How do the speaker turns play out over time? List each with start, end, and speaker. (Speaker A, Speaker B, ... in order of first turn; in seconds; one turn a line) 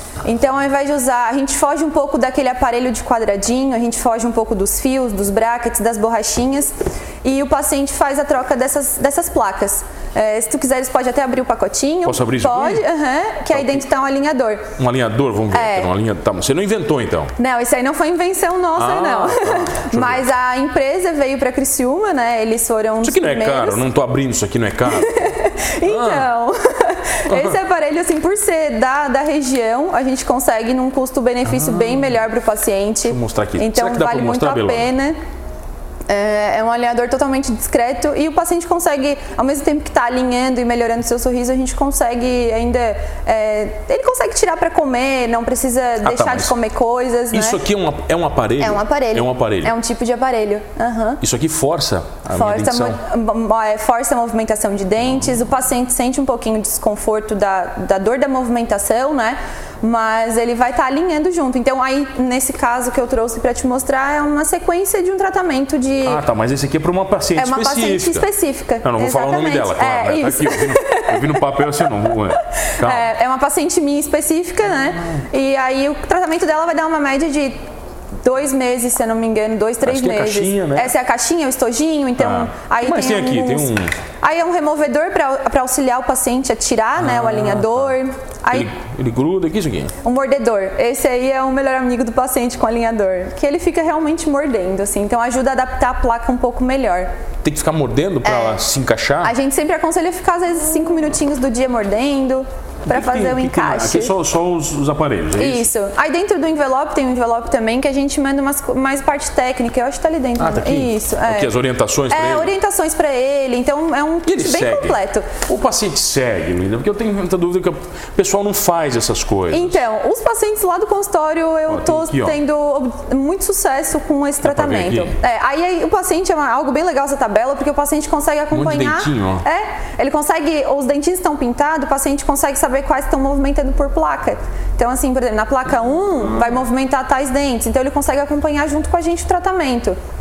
Speaker A: 0.2-14.7
Speaker B: 12.0-12.8
Speaker B: 13.5-13.8
Speaker B: 14.8-17.3
Speaker A: 15.5-15.9
Speaker A: 17.4-23.8
Speaker B: 18.8-20.2
Speaker B: 23.0-26.3
Speaker A: 24.9-35.2
Speaker B: 27.2-27.6
Speaker B: 31.5-32.1
Speaker B: 33.0-34.9
Speaker A: 36.1-47.6
Speaker B: 46.0-46.5
Speaker B: 47.3-49.7
Speaker A: 48.6-51.2
Speaker B: 51.2-53.0
Speaker A: 52.3-66.2
Speaker B: 66.0-68.3
Speaker A: 67.4-71.4
Speaker B: 68.8-73.1
Speaker A: 72.8-77.6
Speaker A: 78.2-83.7
Speaker B: 79.8-80.9
Speaker B: 82.2-83.9
Speaker A: 84.2-88.7
Speaker B: 87.0-87.9
Speaker B: 88.5-89.9
Speaker A: 90.0-97.1
Speaker B: 97.4-99.3
Speaker A: 98.2-98.6
Speaker A: 99.2-104.1
Speaker B: 102.9-105.7
Speaker A: 105.4-111.5
Speaker B: 110.4-112.5
Speaker A: 112.1-115.3
Speaker B: 114.2-119.8
Speaker A: 119.5-139.9
Speaker B: 121.7-122.4
Speaker B: 124.4-125.1
Speaker B: 128.5-129.4